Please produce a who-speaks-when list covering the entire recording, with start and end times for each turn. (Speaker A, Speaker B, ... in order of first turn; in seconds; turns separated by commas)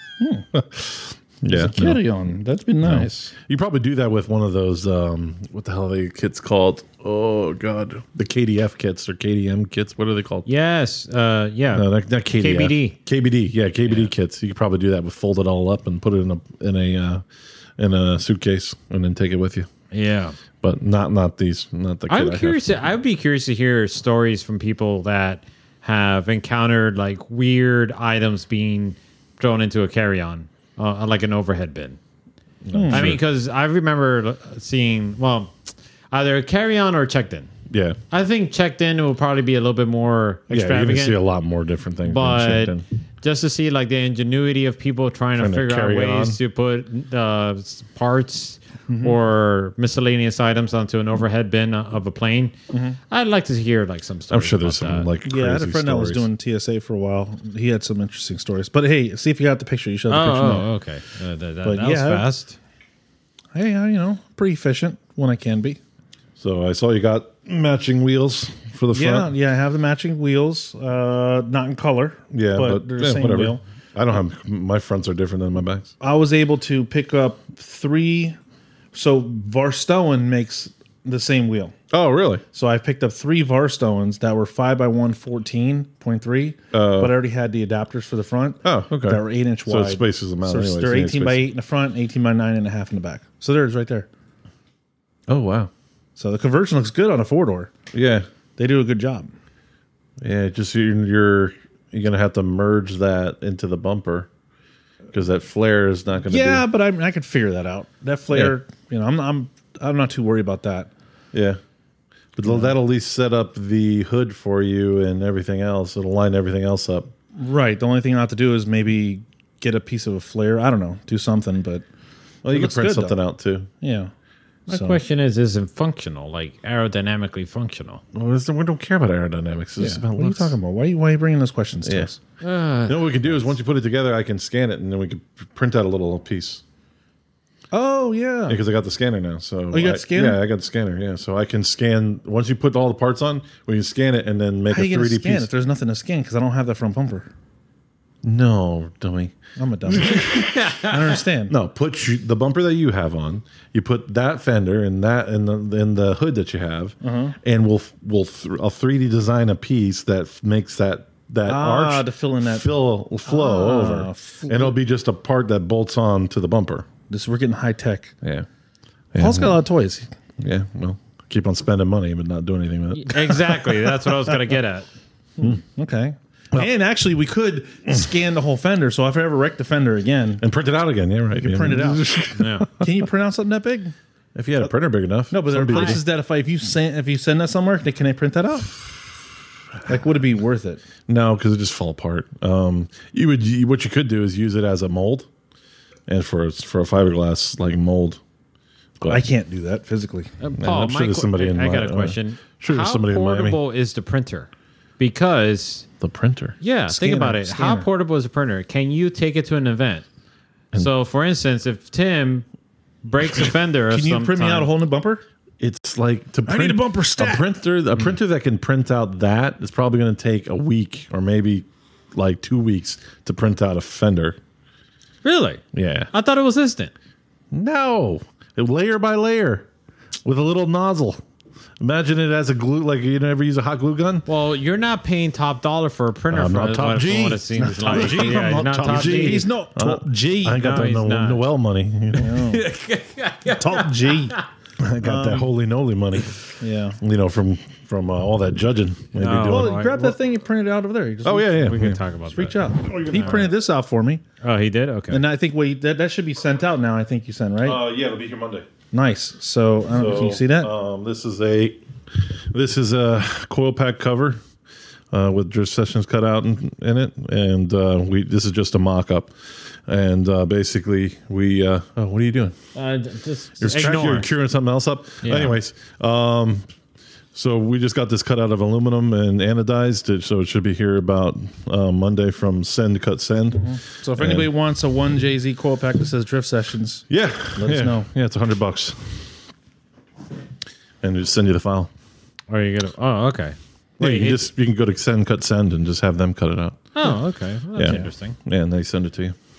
Speaker A: 0.2-0.5, Speaker B: 0.5-2.0, Speaker A: 1.5-3.3, Speaker B: 2.8-10.5, Speaker C: 10.5-13.0, Speaker B: 11.7-17.2, Speaker B: 17.8-19.7, Speaker C: 19.9-20.4, Speaker B: 20.6-22.6, Speaker C: 22.1-32.0, Speaker B: 32.7-33.2, Speaker A: 32.7-33.1, Speaker C: 32.9-35.5, Speaker C: 36.1-37.5, Speaker B: 37.7-38.0, Speaker C: 38.1-41.2, Speaker B: 40.5-42.8, Speaker C: 42.0-52.5, Speaker B: 45.4-46.4, Speaker A: 48.9-49.2, Speaker A: 52.7-53.0, Speaker C: 53.1-55.1, Speaker B: 54.3-56.3, Speaker A: 55.3-60.7, Speaker C: 60.1-62.6, Speaker A: 61.6-62.3, Speaker A: 63.5-65.8, Speaker B: 66.4-69.3, Speaker A: 68.9-73.6, Speaker B: 72.3-75.9, Speaker A: 76.0-78.4, Speaker A: 78.9-81.8, Speaker B: 81.9-82.4, Speaker A: 82.5-94.1, Speaker B: 86.7-87.1, Speaker B: 88.6-91.5, Speaker B: 95.3-95.7, Speaker A: 96.2-97.7, Speaker B: 97.9-98.3, Speaker A: 98.6-99.3, Speaker B: 100.2-104.3, Speaker B: 105.1-106.6, Speaker A: 106.3-110.9, Speaker B: 108.3-108.6, Speaker B: 111.3-111.6, Speaker B: 112.4-117.1, Speaker A: 112.4-112.8, Speaker A: 117.3-121.8, Speaker B: 122.4-123.7, Speaker A: 122.5-123.2, Speaker A: 123.8-124.1, Speaker C: 124.7-128.0, Speaker A: 124.7-125.0, Speaker B: 128.1-130.6, Speaker A: 129.8-132.2, Speaker B: 131.8-132.1, Speaker C: 132.4-133.2, Speaker B: 132.9-136.6, Speaker A: 137.7-138.6, Speaker B: 138.5-145.5, Speaker A: 139.7-140.4, Speaker A: 144.7-147.3, Speaker B: 148.2-150.7, Speaker A: 149.6-151.5, Speaker C: 150.2-151.1, Speaker B: 151.5-166.9, Speaker A: 157.0-157.4, Speaker A: 161.5-162.7, Speaker A: 163.2-164.8, Speaker A: 167.1-168.2, Speaker B: 168.2-168.5, Speaker B: 169.1-169.6, Speaker A: 169.2-170.1, Speaker B: 170.4-173.8, Speaker C: 172.9-174.9, Speaker A: 175.4-180.4, Speaker B: 180.4-182.9, Speaker A: 181.4-183.9, Speaker C: 182.3-182.7, Speaker B: 184.3-186.0, Speaker A: 185.3-188.8, Speaker A: 189.8-190.8, Speaker B: 191.1-195.3, Speaker B: 196.1-198.2, Speaker B: 199.0-199.2, Speaker A: 199.1-200.3, Speaker C: 200.4-205.9, Speaker B: 200.6-203.6, Speaker B: 206.0-206.6, Speaker C: 206.6-210.1, Speaker A: 206.9-207.9, Speaker C: 210.7-212.4, Speaker C: 213.0-214.7, Speaker A: 213.9-215.2, Speaker B: 215.6-224.4, Speaker A: 216.5-217.5, Speaker C: 225.2-226.9, Speaker B: 225.7-226.1, Speaker B: 227.5-229.7, Speaker B: 230.2-231.2, Speaker B: 231.8-234.3, Speaker C: 234.3-239.5, Speaker B: 236.3-242.4, Speaker A: 237.6-240.8, Speaker C: 240.5-241.5, Speaker A: 242.2-242.7, Speaker C: 242.2-244.4, Speaker A: 243.5-244.4, Speaker B: 244.8-250.1, Speaker A: 245.0-245.5, Speaker A: 246.6-247.0, Speaker C: 249.1-250.1, Speaker A: 249.4-254.2, Speaker B: 251.2-252.0, Speaker C: 251.6-252.6, Speaker B: 252.8-253.5, Speaker C: 254.4-255.2, Speaker A: 255.1-257.8, Speaker B: 257.6-258.7, Speaker A: 258.9-260.7, Speaker B: 259.9-264.4, Speaker B: 265.1-269.3, Speaker B: 269.9-272.6, Speaker C: 272.8-274.3, Speaker B: 273.6-276.6, Speaker A: 273.7-274.2, Speaker C: 275.2-275.6, Speaker B: 277.3-284.5, Speaker A: 283.5-288.1, Speaker B: 287.1-289.3, Speaker B: 291.0-291.9, Speaker C: 292.5-294.4, Speaker B: 294.0-296.8, Speaker C: 297.0-298.4, Speaker B: 297.8-299.4